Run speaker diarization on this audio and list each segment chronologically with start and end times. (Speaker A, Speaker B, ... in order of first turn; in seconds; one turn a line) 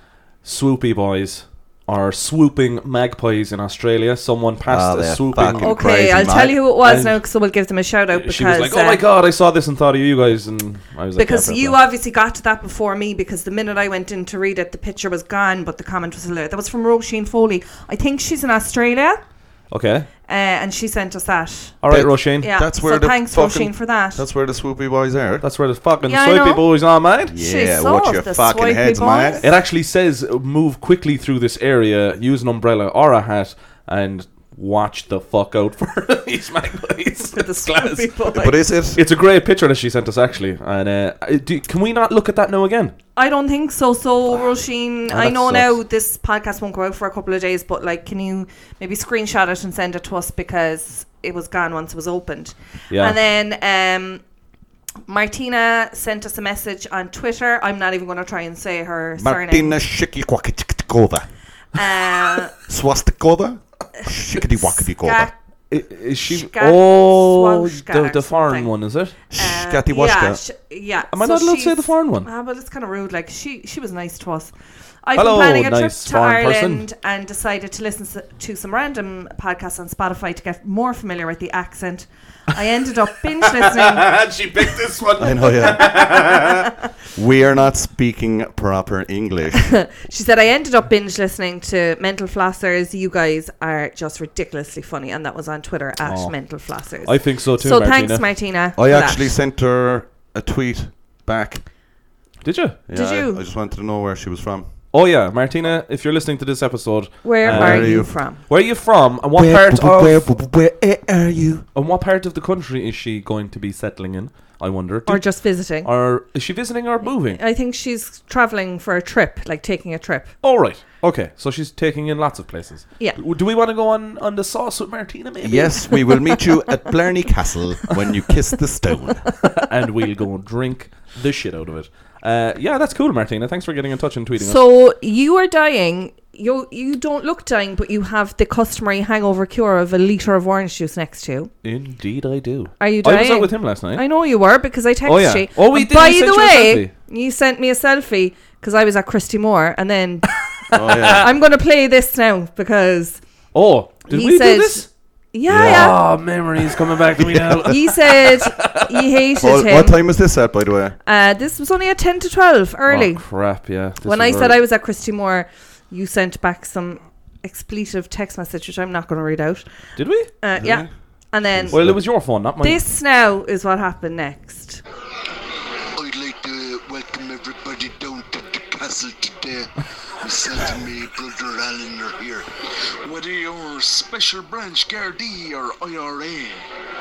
Speaker A: 0.4-5.8
Speaker B: 4.7-6.6
Speaker C: 5.6-9.0
Speaker A: 6.8-7.2
Speaker A: 8.1-11.8
Speaker C: 11.2-19.2
Speaker A: 19.7-20.1
Speaker C: 20.3-21.8
Speaker A: 21.8-22.5
Speaker B: 21.9-25.4
Speaker C: 22.4-24.2
Speaker A: 25.4-27.4
Speaker C: 26.1-26.7
Speaker B: 27.3-29.5
Speaker C: 27.4-29.5
Speaker A: 29.4-43.0
Speaker C: 37.3-38.5
Speaker B: 38.3-39.0
Speaker C: 43.2-54.2
Speaker A: 45.1-45.8
Speaker A: 52.9-53.2
Speaker C: 55.1-59.8
Speaker B: 59.2-61.3
Speaker C: 61.8-62.5
Speaker B: 62.6-65.3
Speaker C: 64.4-65.4
Speaker A: 65.7-69.2
Speaker C: 66.3-84.6
Speaker B: 69.3-70.4
Speaker A: 71.1-72.3
Speaker A: 75.2-76.8
Speaker A: 83.6-86.6
Speaker B: 85.2-86.2
Speaker C: 85.9-86.5
Speaker B: 87.2-89.7
Speaker C: 89.7-99.3
Speaker A: 96.0-98.3
Speaker B: 98.8-101.7
Speaker A: 102.4-102.8
Speaker B: 102.9-104.7
Speaker C: 102.9-103.4
Speaker A: 104.9-110.3
Speaker C: 107.2-108.4
Speaker B: 107.5-108.2
Speaker B: 109.3-111.7
Speaker A: 111.7-117.4
Speaker C: 115.1-115.9
Speaker C: 117.3-120.3
Speaker A: 120.4-126.0
Speaker B: 125.4-129.3
Speaker A: 129.6-134.6
Speaker C: 134.4-141.5
Speaker A: 141.6-144.1
Speaker C: 142.8-150.3
Speaker A: 145.1-146.9
Speaker A: 150.7-151.3
Speaker B: 150.7-151.3
Speaker C: 151.0-153.2
Speaker A: 153.5-154.9
Speaker C: 154.1-156.0
Speaker B: 155.5-156.0
Speaker A: 155.6-159.0
Speaker B: 157.2-157.7
Speaker C: 157.7-160.0
Speaker B: 159.4-161.0
Speaker C: 161.1-163.3
Speaker A: 162.9-164.6
Speaker C: 164.0-169.7
Speaker A: 170.0-170.3
Speaker C: 170.3-172.0
Speaker B: 170.6-170.9
Speaker B: 171.4-172.0
Speaker A: 171.7-172.8
Speaker C: 172.6-174.8
Speaker D: 175.9-182.5
Speaker D: 183.0-186.7